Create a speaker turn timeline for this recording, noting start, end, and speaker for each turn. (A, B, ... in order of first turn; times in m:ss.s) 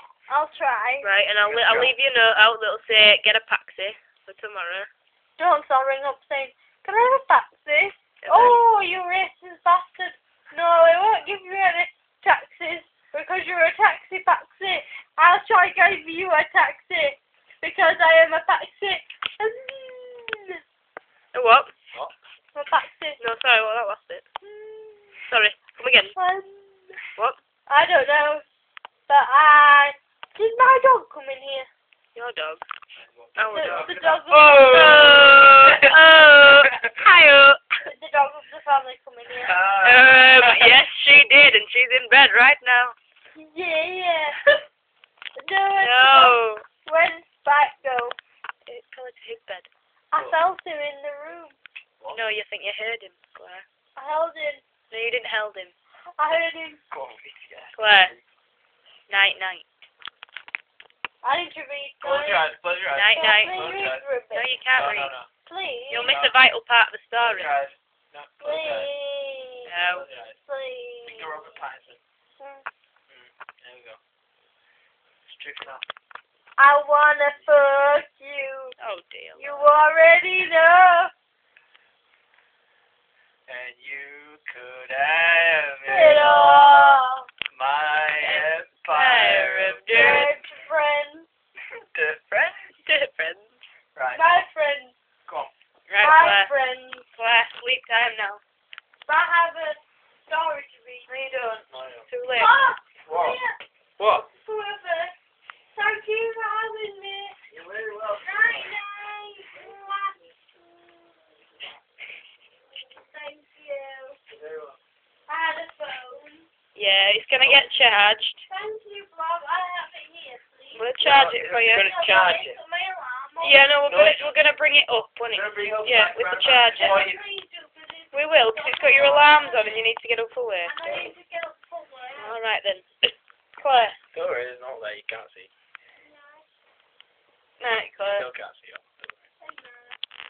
0:00.3-0:01.1 A
0:01.0-0:04.9 B
0:01.4-0:01.9 C
0:05.4-0:20.6 A
0:08.2-0:08.6 B
0:21.3-0:21.7 B
0:22.5-0:23.2 A
0:23.2-0:24.2 B
0:24.4-0:25.2 A
0:25.3-0:26.1 B
0:26.1-0:26.9 A
0:27.7-0:28.4 A
0:29.1-0:31.7 A
0:32.1-0:32.6 B
0:33.0-0:35.9 C
0:33.4-0:37.6 B
0:33.5-0:35.2 A
0:36.5-0:36.9 C
0:37.8-0:39.6 A
0:39.4-0:40.8 C
0:39.8-0:42.9 B
0:43.4-0:44.4 A
0:45.4-0:48.2 A
0:45.8-0:46.6 B
0:48.7-0:49.7 B
0:50.1-0:51.6 A
0:52.1-0:53.6 B
0:54.0-0:54.6 A
0:54.9-0:55.7 B
0:56.2-0:56.8 A
0:56.9-0:58.2 C
0:57.8-0:58.1 B
0:59.1-0:59.6 B
1:01.2-1:02.5 A
1:02.0-1:04.0 C
1:02.9-1:03.6 B
1:03.1-1:04.6 A
1:04.3-1:05.2 B
1:04.7-1:05.3 C
1:05.4-1:06.1 A
1:05.9-1:07.5 B
1:05.9-1:06.4 C
1:07.2-1:08.9 C
1:08.4-1:09.7 A
1:09.7-1:10.1 B
1:09.9-1:10.4 C
1:10.4-1:11.3 A
1:11.0-1:12.0 C
1:12.4-1:12.6 A
1:13.1-1:14.0 C
1:15.2-1:15.8 C
1:16.6-1:18.7 A
1:18.8-1:19.6 B
1:19.4-1:21.1 A
1:23.5-1:27.0 C
1:25.8-1:27.3 A
1:27.5-1:30.3 C
1:28.2-1:30.3 B
1:29.9-1:31.3 A
1:31.9-1:32.6 C
1:32.7-1:33.5 B
1:33.9-1:34.2 C
1:34.1-1:35.0 A
1:35.3-1:35.5 C
1:35.9-1:36.5 B
1:36.0-1:37.1 A
1:37.1-1:38.4 B
1:39.0-1:41.1 A
1:41.1-1:42.5 B
1:41.7-1:42.1 C
1:42.3-1:45.1 A
1:43.0-1:43.4 C
1:44.0-1:44.2 C
1:45.7-1:47.4 A
1:47.5-1:48.7 C
1:48.1-1:51.1 A
1:52.7-1:54.2 A
1:54.3-1:54.8 C
1:55.3-1:56.5 A
1:56.7-1:58.4 B
1:57.4-1:57.7 C
1:58.5-2:00.9 A
2:00.7-2:01.9 B
2:01.0-2:02.6 C
2:01.7-2:03.6 A
2:03.4-2:07.0 B
2:03.8-2:04.3 C
2:05.3-2:07.2 C
2:06.7-2:09.8 A
2:08.1-2:11.1 B
2:10.6-2:12.4 A
2:12.2-2:14.0 B
2:14.1-2:15.5 C
2:16.0-2:16.5 A
2:17.6-2:18.3 B
2:18.1-2:19.1 C
2:19.4-2:20.0 A